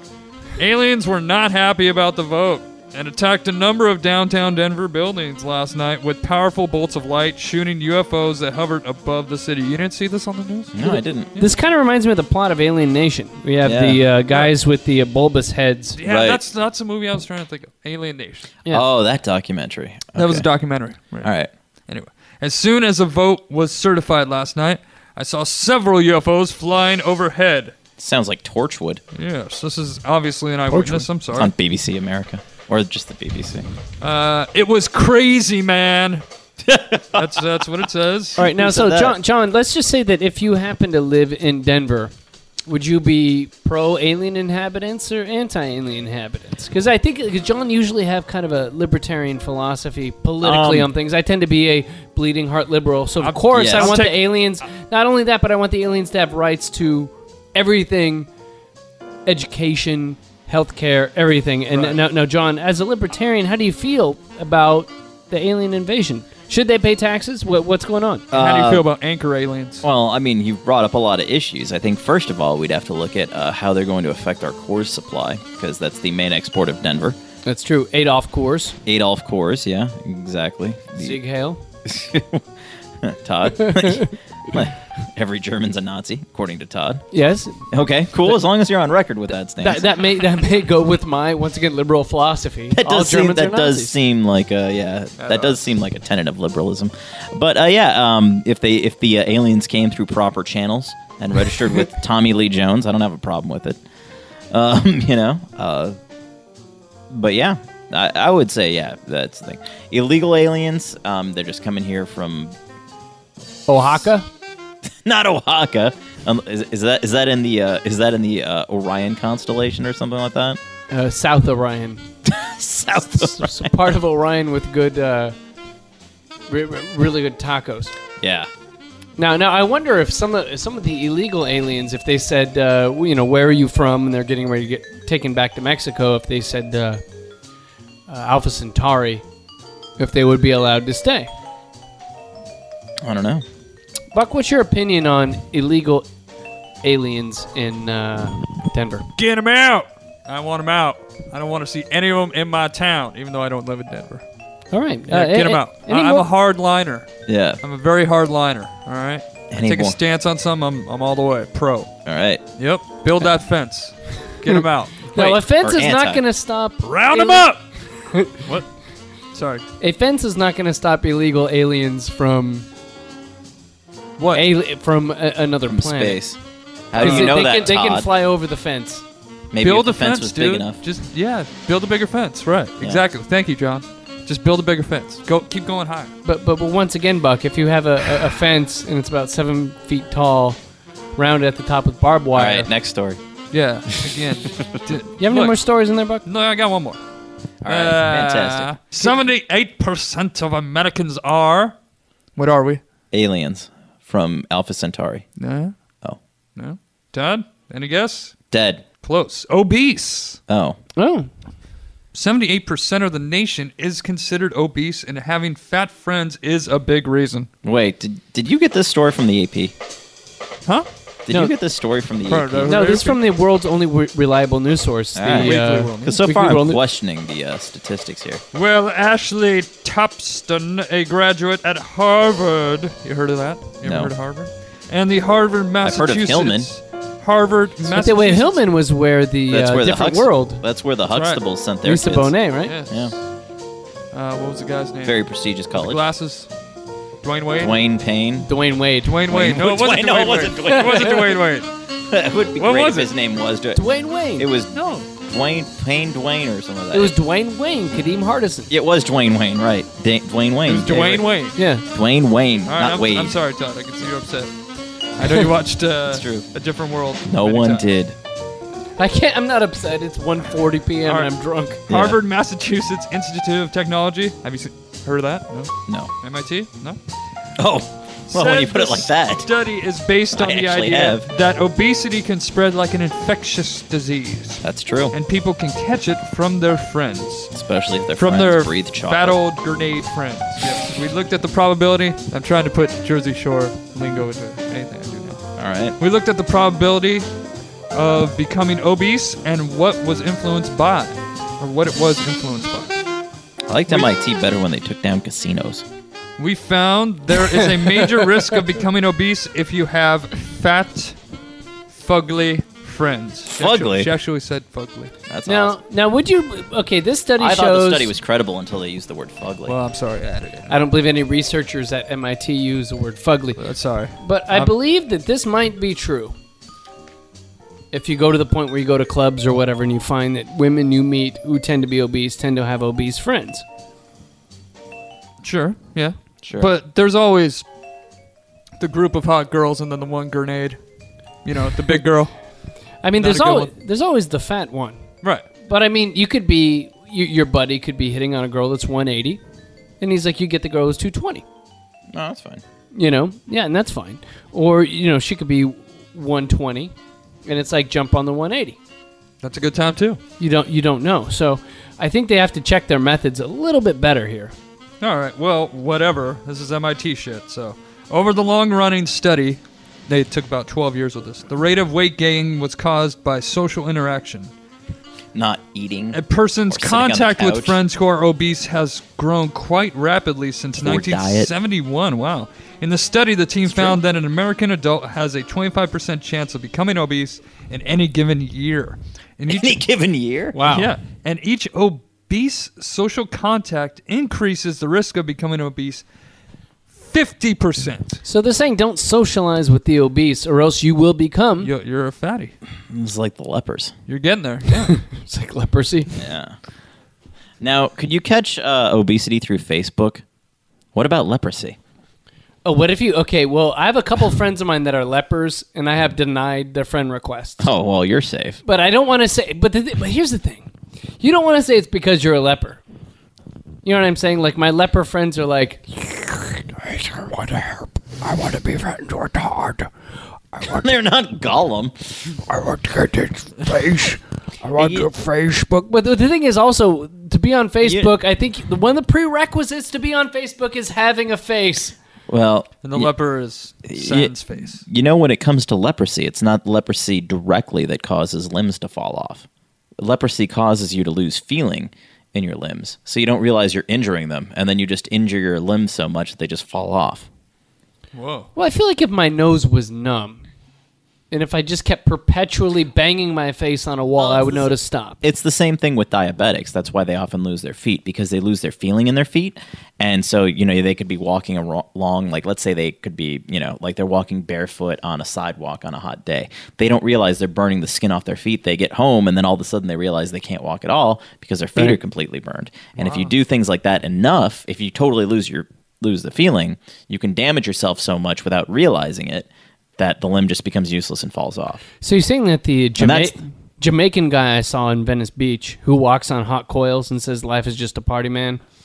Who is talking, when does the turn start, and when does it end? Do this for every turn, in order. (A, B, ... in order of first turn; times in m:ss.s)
0:00.6-0:10.8 A
0:10.7-0:11.3 B
0:10.9-0:16.0 C
0:13.6-0:14.0 B
0:16.0-0:18.5 A
0:16.0-0:16.4 B
0:18.7-0:20.5 B
0:20.2-0:21.3 A
0:21.2-0:21.5 B
0:21.9-0:27.7 A
0:28.0-0:29.0 B
0:29.1-0:31.5 A
0:30.7-0:31.0 C
0:31.3-0:33.6 B
0:34.0-0:36.2 A
0:36.6-0:37.6 B
0:37.1-0:38.4 A
0:38.4-0:39.2 B
0:38.4-0:42.1 C
0:42.6-0:58.3 C
0:50.4-0:50.9 B
0:53.2-0:54.4 A
0:53.5-0:54.0 B
0:59.2-1:08.2 C
1:01.7-1:02.0 A
1:08.3-1:08.9 B
1:08.3-1:09.8 A
1:09.8-1:17.2 B
1:17.4-1:18.8 C
1:18.8-1:21.2 B
1:21.0-1:21.6 C
1:21.8-1:22.4 B
1:23.0-1:27.0 B
1:23.6-1:24.1 C
1:27.1-1:27.6 C
1:27.7-1:29.9 B
1:29.6-1:33.9 C
1:32.7-1:43.8 B
1:35.2-1:35.6 A
1:44.5-1:46.0 B
1:47.1-1:52.6 B
1:53.7-1:54.2 C
1:54.9-2:00.6 B
2:00.9-2:02.0 C
2:02.2-2:03.9 B
2:02.9-2:05.3 C
2:06.5-2:07.9 C
2:08.2-2:08.5 B
2:09.2-2:17.0 C
2:18.1-2:19.2 C
2:20.0-2:21.3 C
2:23.0-2:23.4 B
2:24.1-2:26.1 C
2:26.8-2:29.0 C
2:29.2-2:34.2 A
2:34.7-2:36.3 C
2:35.1-2:41.9 A
2:37.3-2:37.6 B
2:39.5-2:40.0 B
2:42.0-2:42.4 B
2:42.6-2:45.3 A
2:45.1-2:47.5 C
2:45.2-2:46.2 B
2:46.8-2:47.6 A
2:48.1-2:48.4 C
2:48.4-2:48.7 A
2:49.3-2:49.6 A
2:49.8-2:52.7 C
2:54.2-2:54.4 A
2:54.3-2:56.2 C
2:55.7-2:56.4 B
2:56.9-2:58.1 B
2:57.0-2:59.0 C
2:57.0-2:57.5 A
2:59.5-3:00.8 B
2:59.6-3:06.1 A
3:06.2-3:10.6 C
3:11.2-3:12.7 C
3:12.3-3:13.2 B
3:13.5-3:15.6 A
3:15.2-3:16.2 C
3:16.2-3:17.0 A
3:17.6-3:18.7 B
3:17.6-3:21.7 A
3:22.4-3:22.8 A
3:23.1-3:25.2 B
3:25.4-3:25.7 A
3:26.6-3:28.4 A
3:28.5-3:28.8 B
3:29.0-3:30.4 A
3:30.5-3:30.8 B
3:31.0-3:31.3 C
3:32.1-3:37.5 A
3:37.6-3:39.7 B
3:41.2-3:42.8 B
3:42.3-3:43.2 A
3:42.7-3:46.8 C
3:45.1-3:48.4 B
3:45.4-3:46.2 A
3:48.5-3:58.6 A
3:53.8-3:54.1 B
3:55.8-3:56.7 B
3:57.8-4:00.6 C
3:59.5-4:02.4 B
4:01.1-4:01.4 A
4:01.8-4:02.7 C
4:02.6-4:03.1 A
4:02.9-4:03.1 B
4:04.1-4:05.2 A
4:05.0-4:06.0 B
4:05.7-4:06.5 A
4:07.2-4:07.8 A
4:07.6-4:08.5 B
4:08.4-4:09.1 C
4:09.0-4:11.7 A
4:09.3-4:11.4 B
4:10.7-4:11.1 C
4:12.1-4:17.1 B
4:12.6-4:13.1 A
4:13.7-4:14.5 C
4:14.7-4:15.1 A
4:16.9-4:18.7 C
4:18.7-4:21.3 B
4:20.6-4:21.6 A
4:21.6-4:21.8 C
4:21.9-4:23.4 B
4:22.7-4:24.5 A
4:25.2-4:27.8 A
4:26.1-4:26.5 B
4:27.3-4:28.2 B
4:29.0-4:31.8 C
4:31.0-4:31.3 A
4:31.9-4:37.0 A
4:31.9-4:32.2 B
4:37.6-4:39.5 B
4:38.3-4:47.5 A
4:40.3-4:41.3 B
4:44.6-4:45.1 B
4:47.5-4:49.4 B
4:48.2-4:55.4 A
4:55.6-4:56.0 B
4:56.0-4:57.3 A
4:57.9-5:03.0 A
5:03.7-5:05.8 B
5:06.4-5:11.2 A
5:11.9-5:15.1 A
5:13.5-5:14.1 B
5:15.3-5:15.8 B
5:15.4-5:18.1 C
5:17.4-5:19.8 B
5:19.6-5:20.8 A
5:20.7-5:23.6 C
5:23.6-5:24.7 A
5:24.2-5:26.3 C
5:27.9-5:33.6 C
5:35.4-5:37.6 A
5:36.4-5:36.7 B
5:38.8-5:40.8 A
5:41.4-5:42.5 A
5:43.0-5:45.0 C
5:43.2-5:43.7 A
5:45.6-5:49.4 C
5:50.0-5:51.4 C
5:52.1-5:52.6 B
5:52.9-5:56.9 C
5:57.4-5:58.8 C
5:59.4-6:00.2 A
6:00.4-6:04.5 C
6:05.0-6:14.5 A
6:15.3-6:17.8 B
6:16.1-6:29.8 A
6:20.8-6:21.5 B
6:23.6-6:24.0 B
6:29.5-6:30.6 B
6:30.5-6:30.9 C
6:30.7-6:36.0 A
6:37.0-6:38.2 A
6:38.2-6:41.7 C
6:41.6-6:42.5 A
6:42.9-6:43.9 B
6:44.1-6:45.0 A
6:44.9-6:46.1 C
6:46.1-6:46.6 B
6:47.6-6:50.2 B
6:50.9-6:51.8 B
6:52.6-6:57.7 C
6:57.6-6:58.6 B
6:58.6-7:02.8 C
7:03.8-7:09.9 C
7:10.6-7:12.2 B
7:12.5-7:22.0 C
7:14.7-7:15.1 B
7:17.8-7:18.1 B
7:22.3-7:23.1 B
7:22.8-7:24.8 A
7:23.9-7:29.4 B
7:30.0-7:37.3 B
7:38.1-7:38.5 A
7:38.5-7:40.4 C
7:41.3-7:45.2 C
7:44.2-7:44.7 A
7:45.2-8:11.8 B
8:03.0-8:03.3 A
8:12.0-8:18.6 C
8:13.0-8:13.4 B